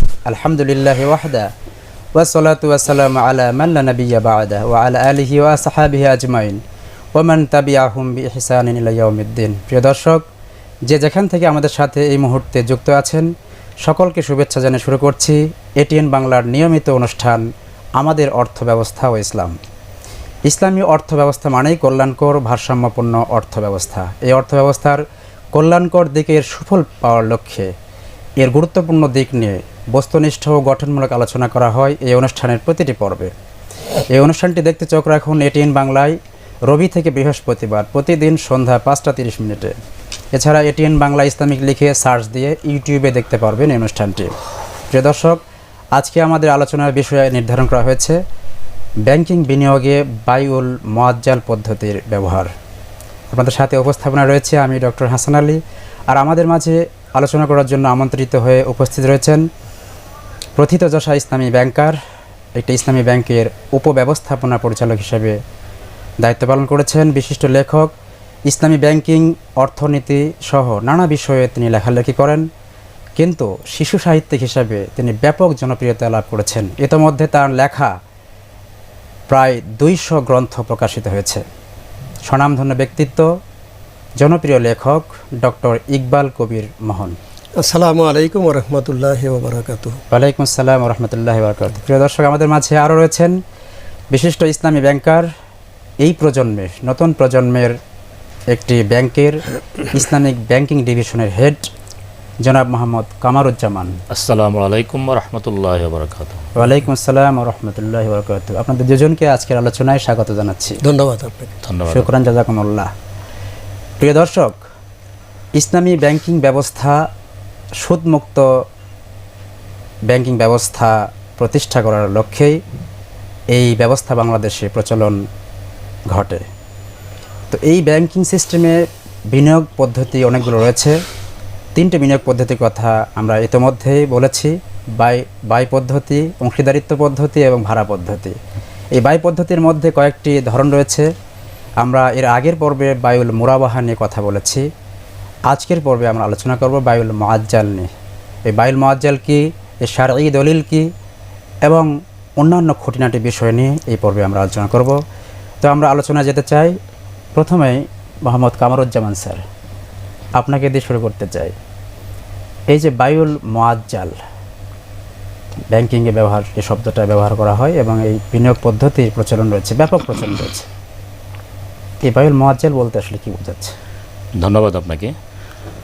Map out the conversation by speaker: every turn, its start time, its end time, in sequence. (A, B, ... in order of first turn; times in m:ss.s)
0:00.3-0:01.5 A
0:02.2-0:06.6 A
0:07.2-0:10.2 A
0:10.9-0:13.3 A
0:13.8-0:17.4 A
0:18.0-0:19.6 A
0:20.5-0:25.0 A
0:25.6-0:27.7 A
0:28.4-0:33.3 A
0:34.1-0:36.2 A
0:36.7-0:39.7 A
0:40.3-0:44.3 A
0:44.9-0:45.4 A
0:46.0-0:48.2 A
0:49.1-0:52.5 A
0:53.3-0:59.4 A
1:00.6-1:02.0 A
1:02.6-1:05.4 A
1:06.2-1:07.9 A
1:08.5-1:12.5 A
1:13.2-1:18.0 A
1:19.3-1:21.4 A
1:22.3-1:23.3 A
1:24.2-1:27.2 A
1:27.6-1:30.0 B
1:30.1-1:33.4 A
1:34.1-1:35.3 A
1:36.0-1:37.8 A
1:38.5-1:41.7 A
1:42.4-1:44.0 A
1:44.1-1:46.5 C
1:46.6-1:50.8 A
1:50.8-1:51.6 B
1:51.7-1:52.1 C
1:51.9-1:52.9 A
1:54.0-1:54.6 A
1:55.6-1:57.0 A
1:57.8-1:58.5 A
2:00.1-2:02.6 A
2:03.5-2:05.2 A
2:06.1-2:06.4 A
2:07.5-2:08.8 A
2:09.3-2:11.0 A
2:11.8-2:18.3 A
2:19.0-2:21.1 A
2:21.8-2:24.6 A
2:25.5-2:27.9 A
2:28.5-2:30.9 A
2:31.7-2:35.0 A
2:35.6-2:36.8 A
2:37.4-2:39.4 A
2:40.4-2:41.5 A
2:42.7-2:44.2 A
2:45.7-2:50.7 A
2:52.0-2:53.8 A
2:54.4-2:55.1 C